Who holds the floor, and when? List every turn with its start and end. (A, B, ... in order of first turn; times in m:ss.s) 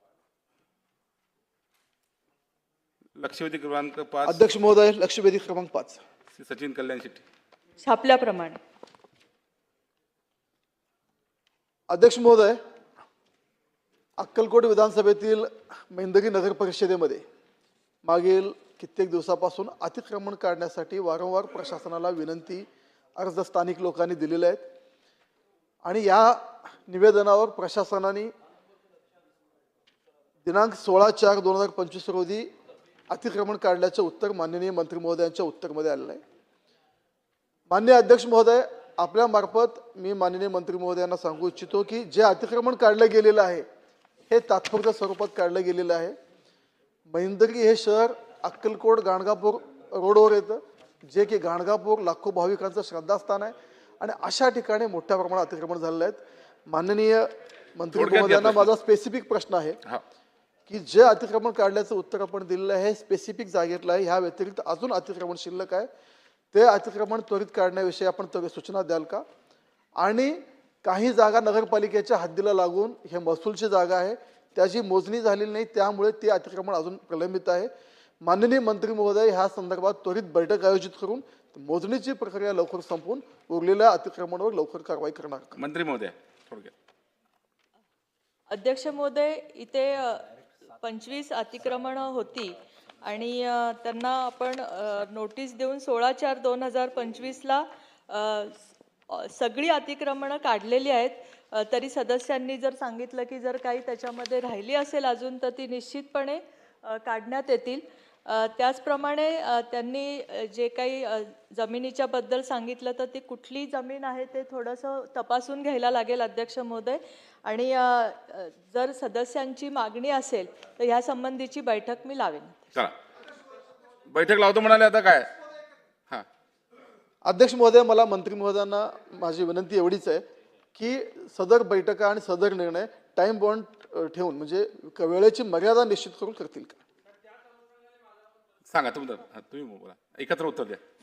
0:03.2-0:04.4 A
0:04.2-0:06.0 B
0:06.4-0:07.2 A
0:07.8-0:08.6 C
0:11.9-0:12.6 B
0:14.2-0:17.2 B
0:18.0-0:24.7 B
0:25.8-0:28.3 B
0:30.4-0:32.5 B
0:33.1-0:36.2 B
0:37.7-0:43.6 B
0:44.3-0:46.2 B
0:47.1-0:59.8 B
0:57.9-0:58.7 A
1:00.7-1:05.9 B
1:06.5-1:09.2 B
1:10.0-1:17.7 B
1:18.2-1:25.6 B
1:25.6-1:26.7 A
1:28.5-2:02.7 C
2:04.1-2:05.3 A
2:07.2-2:16.8 B
2:18.7-2:20.8 A